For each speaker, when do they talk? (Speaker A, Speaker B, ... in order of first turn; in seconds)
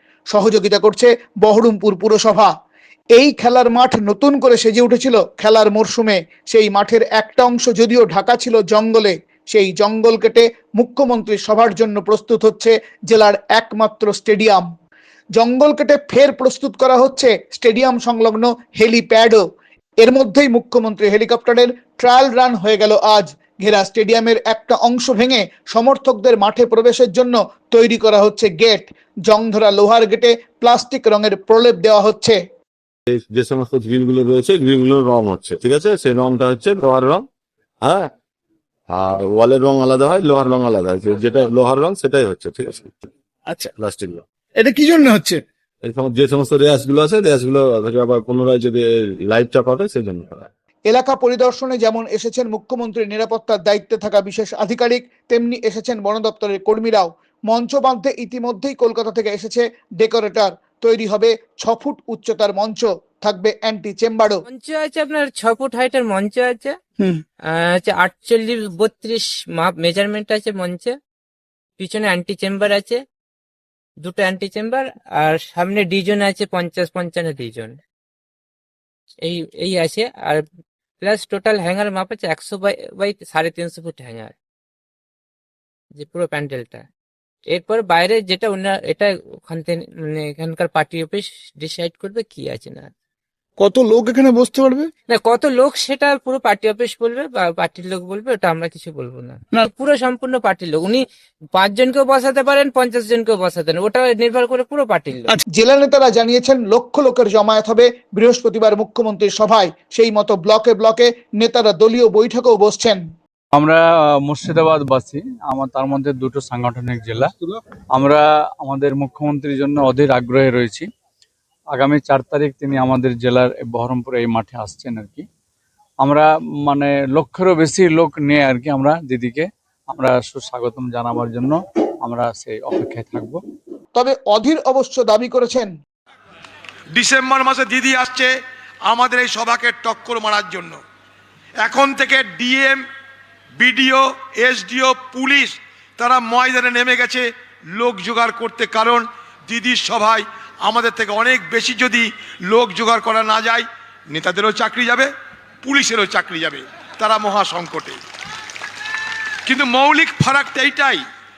Speaker A: 0.3-2.5, 3.1-14.7, 15.3-19.4, 20.0-32.4, 50.9-64.4, 105.5-113.0, 133.9-135.7
Speaker B: 33.1-37.3, 37.8-38.1, 38.9-43.1, 43.7-44.2, 45.8-50.5
Speaker C: 44.6-45.4, 93.6-94.9
Speaker D: 64.5-66.8, 67.5-71.0, 71.8-73.0, 74.0-77.8, 79.2-80.4, 81.0-84.3, 85.9-86.8, 87.5-92.9, 95.1-105.3
Speaker E: 113.5-117.3, 117.9-120.9, 121.7-125.2, 126.0-133.4
Speaker F: 136.9-138.3, 138.8-140.8, 141.6-142.8, 143.6-147.2, 147.8-155.1, 155.6-158.0, 159.4-161.0